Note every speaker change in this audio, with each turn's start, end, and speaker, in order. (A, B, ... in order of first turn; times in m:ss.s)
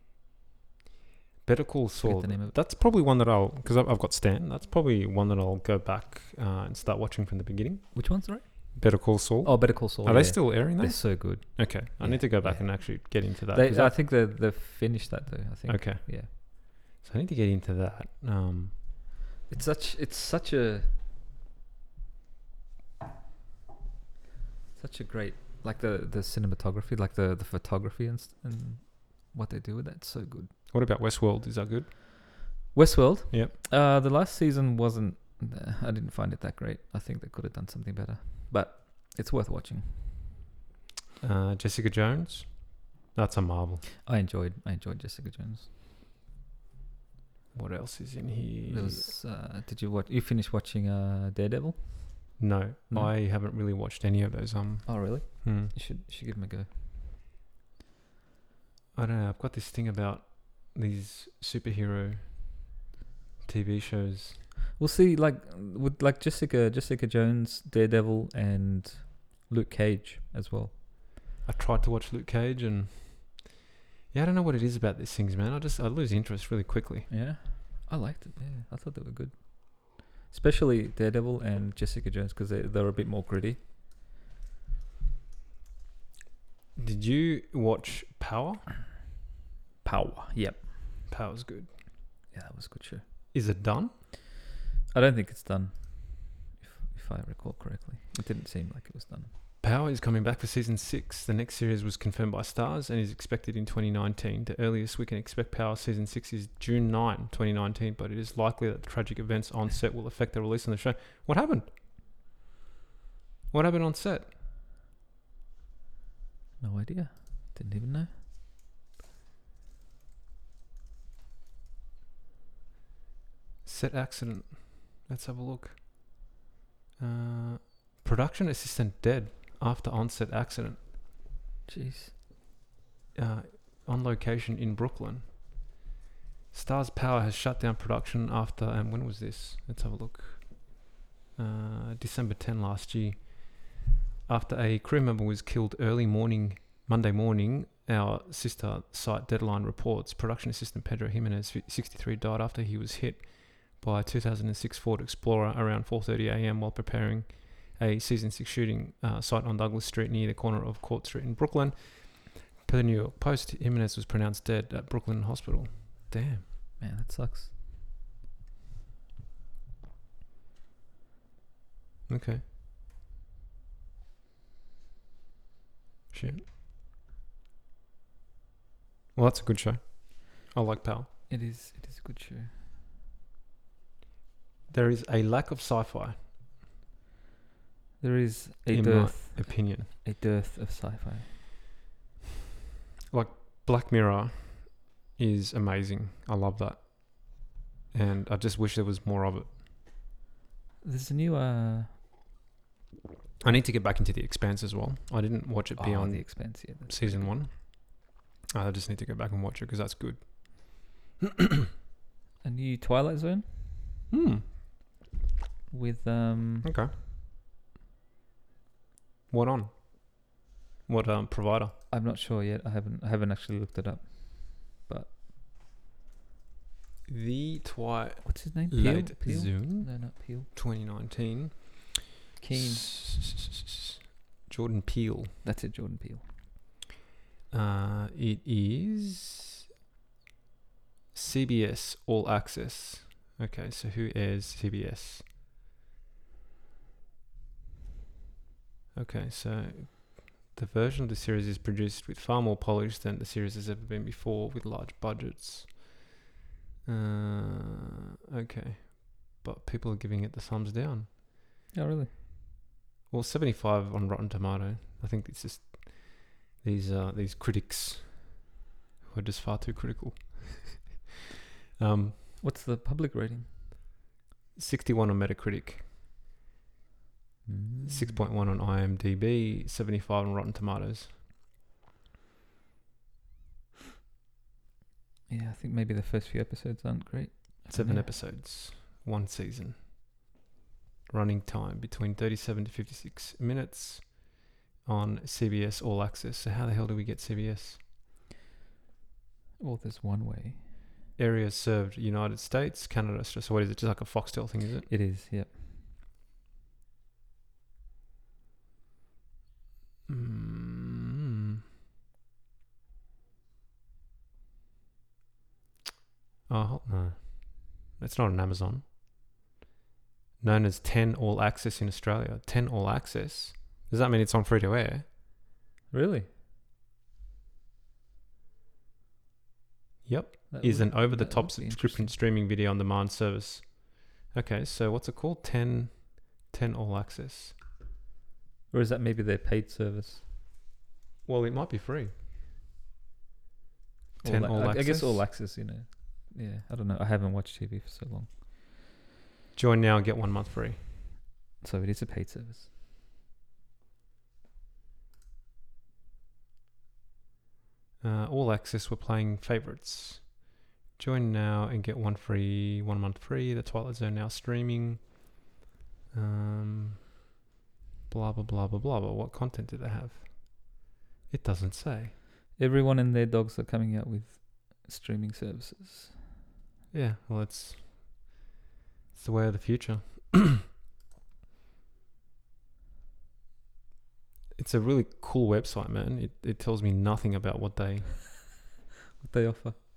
0:01.4-0:13.9 A
0:02.0-0:02.6 B
0:07.9-0:16.3 B
0:15.7-0:18.8 A
0:19.5-0:20.9 B
0:24.8-0:30.5 B
0:30.7-0:31.9 A
0:32.7-0:40.3 B
0:41.2-0:43.8 A
0:44.0-0:45.7 B
0:47.5-0:49.1 A
0:48.7-0:53.1 B
0:52.4-0:55.7 A
0:54.8-0:56.7 B
0:58.9-1:02.7 A
1:03.4-1:04.4 A
1:04.8-1:10.7 B
1:11.4-1:13.5 A
1:14.1-1:17.1 A
1:17.1-1:23.6 B
1:26.8-1:28.6 A
1:29.8-1:30.9 B
1:31.1-1:31.7 A
1:32.3-1:33.3 B
1:33.3-1:33.9 A
1:34.9-1:39.3 B
1:39.6-1:51.7 A
1:53.5-1:54.3 A
1:56.6-1:58.1 B
2:03.6-2:06.2 A
2:07.0-2:10.8 A
2:11.7-2:12.1 B
2:13.1-2:15.6 A
2:16.5-2:23.7 A
2:24.3-2:46.4 A
2:46.8-2:47.5 B
2:52.1-2:52.4 A
2:56.1-2:56.4 A
2:59.1-3:01.1 A
3:01.3-3:02.5 B
3:04.7-3:06.2 A
3:08.0-3:11.4 B
3:08.7-3:09.9 A
3:13.1-3:19.6 A
3:20.8-3:22.0 B
3:23.4-3:31.0 A
3:25.8-3:27.4 B
3:32.4-3:33.8 B
3:34.1-3:34.5 A
3:35.7-3:36.7 B
3:36.6-3:36.9 A
3:39.3-3:40.3 A
3:40.9-3:41.8 A
3:41.9-3:45.2 B
3:47.1-3:53.6 A
3:48.2-3:50.5 B
3:52.4-3:52.9 B
3:54.5-3:55.4 A
3:55.4-3:56.3 B
3:57.5-3:59.4 A
4:01.1-4:05.2 A
4:08.9-4:16.0 A
4:16.8-4:21.1 A
4:21.7-4:22.1 B
4:23.1-4:28.5 A
4:29.0-4:31.0 A
4:31.8-4:32.2 A
4:32.4-4:33.6 B
4:34.5-4:35.9 A
4:37.4-4:38.2 B
4:37.8-4:41.1 A
4:45.3-4:48.1 B
4:47.7-4:49.9 A
4:51.1-4:57.8 A
4:59.6-5:00.7 B
5:01.2-5:04.9 A
5:04.9-5:05.6 B
5:10.1-5:11.2 A
5:16.5-5:18.8 A
5:20.4-5:25.0 A
5:25.9-5:26.3 B
5:30.0-5:37.6 A
5:30.5-5:32.1 B
5:38.7-5:40.2 B
5:41.2-5:42.1 A
5:44.2-5:45.2 A
5:44.2-5:48.4 B
5:49.5-5:50.8 A
5:51.6-5:52.7 B
5:58.0-6:05.3 A
6:06.1-6:07.1 A
6:08.1-6:12.1 A
6:12.6-6:16.3 B
6:16.9-6:18.3 A
6:19.1-6:20.6 A
6:24.6-6:28.2 A
6:29.2-6:29.8 B